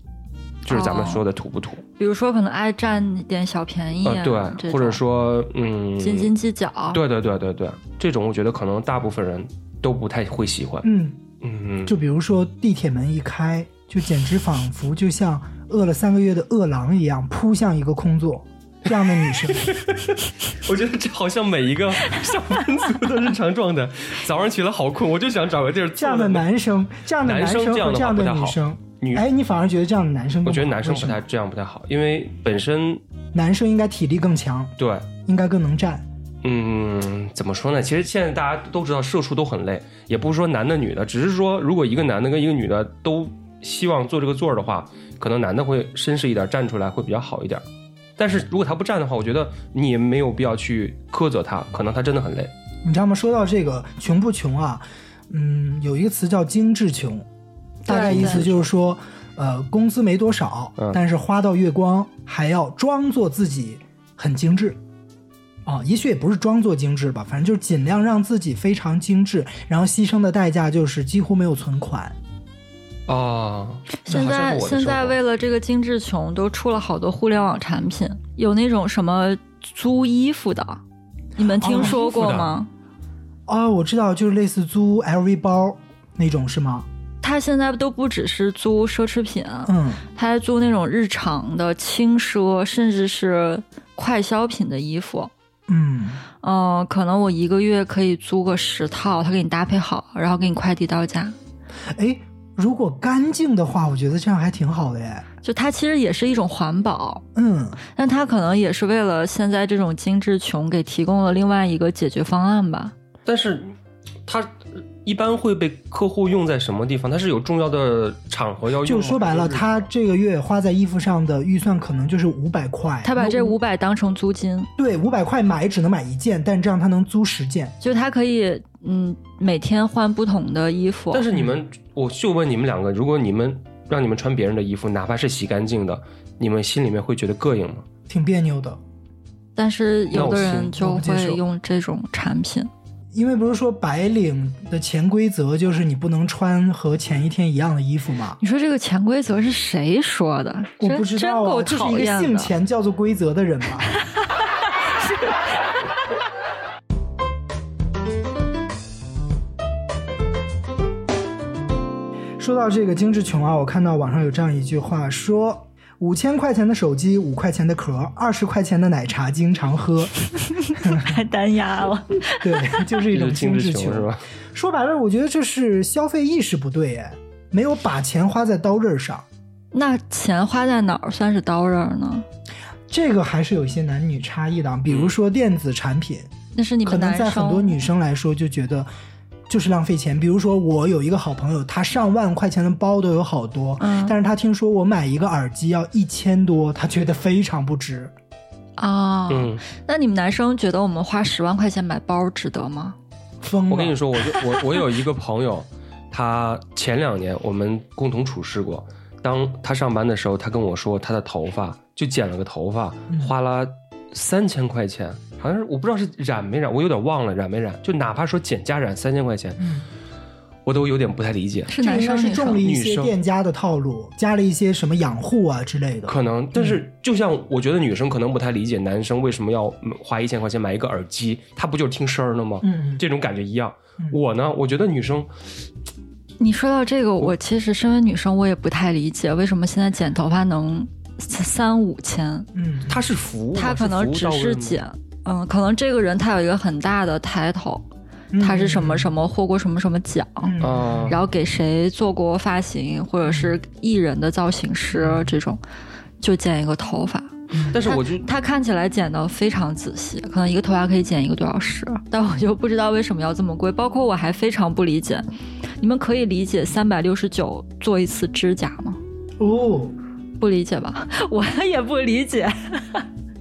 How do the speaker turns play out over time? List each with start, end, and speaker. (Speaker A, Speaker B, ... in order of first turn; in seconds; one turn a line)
Speaker A: 0.7-1.8
Speaker B: 0.7-1.2
Speaker B: 2.0-5.0
Speaker A: 4.0-6.3
Speaker B: 6.0-7.0
Speaker A: 6.9-10.9
Speaker C: 10.8-11.2
Speaker A: 11.4-11.9
Speaker C: 11.9-19.7
Speaker A: 19.3-26.4
Speaker C: 26.0-31.2
Speaker A: 27.2-29.3
Speaker A: 30.5-33.0
Speaker C: 33.3-34.7
Speaker A: 34.8-35.1
Speaker C: 35.2-36.1
Speaker A: 36.4-47.6
Speaker A: 48.2-52.5
Speaker C: 52.8-57.3
Speaker C: 57.9-64.8
Speaker B: 57.9-58.4
Speaker A: 58.0-58.7
Speaker C: 65.7-72.2
Speaker A: 73.1-75.2
Speaker B: 74.0-80.8
Speaker B: 81.4-82.7
Speaker C: 81.6-82.0
Speaker A: 81.8-82.5
Speaker C: 83.5-86.9
Speaker B: 87.2-95.3
Speaker C: 89.7-90.0
Speaker C: 95.7-96.2
Speaker B: 96.4-101.4
Speaker C: 101.9-105.3
Speaker B: 105.4-107.2
Speaker C: 107.3-107.8
Speaker B: 108.0-113.0
Speaker A: 113.3-113.7
Speaker A: 114.3-119.9
Speaker C: 118.8-123.6
Speaker B: 123.0-124.7
Speaker C: 124.8-127.8
Speaker B: 127.8-131.3
Speaker A: 131.1-137.9
Speaker C: 138.1-138.8
Speaker B: 139.6-142.7
Speaker A: 140.1-140.8
Speaker C: 140.8-141.4
Speaker C: 143.1-148.4
Speaker B: 148.4-152.5
Speaker C: 150.8-153.9
Speaker B: 155.0-155.4
Speaker C: 162.4-170.1
Speaker B: 170.5-172.8
Speaker C: 170.7-171.2
Speaker C: 172.4-179.3
Speaker A: 173.1-174.2
Speaker B: 179.7-182.2
Speaker C: 182.9-186.3
Speaker B: 186.5-187.8
Speaker C: 186.8-188.9
Speaker C: 189.5-198.1
Speaker B: 193.8-194.2
Speaker B: 198.8-203.0
Speaker A: 199.3-199.6
Speaker C: 203.4-204.0
Speaker A: 203.7-219.7
Speaker C: 219.6-219.9
Speaker A: 220.7-221.7
Speaker B: 221.7-222.7
Speaker C: 221.8-226.8
Speaker A: 222.6-223.1
Speaker A: 226.1-235.3
Speaker C: 232.6-233.0
Speaker B: 236.4-242.5
Speaker C: 242.6-243.0
Speaker A: 242.9-244.8
Speaker B: 243.6-247.8
Speaker C: 248.3-249.1
Speaker B: 248.4-255.6
Speaker C: 250.4-251.2
Speaker A: 250.6-251.2
Speaker C: 253.3-253.5
Speaker C: 254.9-255.3
Speaker B: 256.2-265.3
Speaker C: 257.5-257.8
Speaker A: 257.7-258.3
Speaker B: 265.8-269.0
Speaker C: 269.4-269.9
Speaker B: 270.4-273.1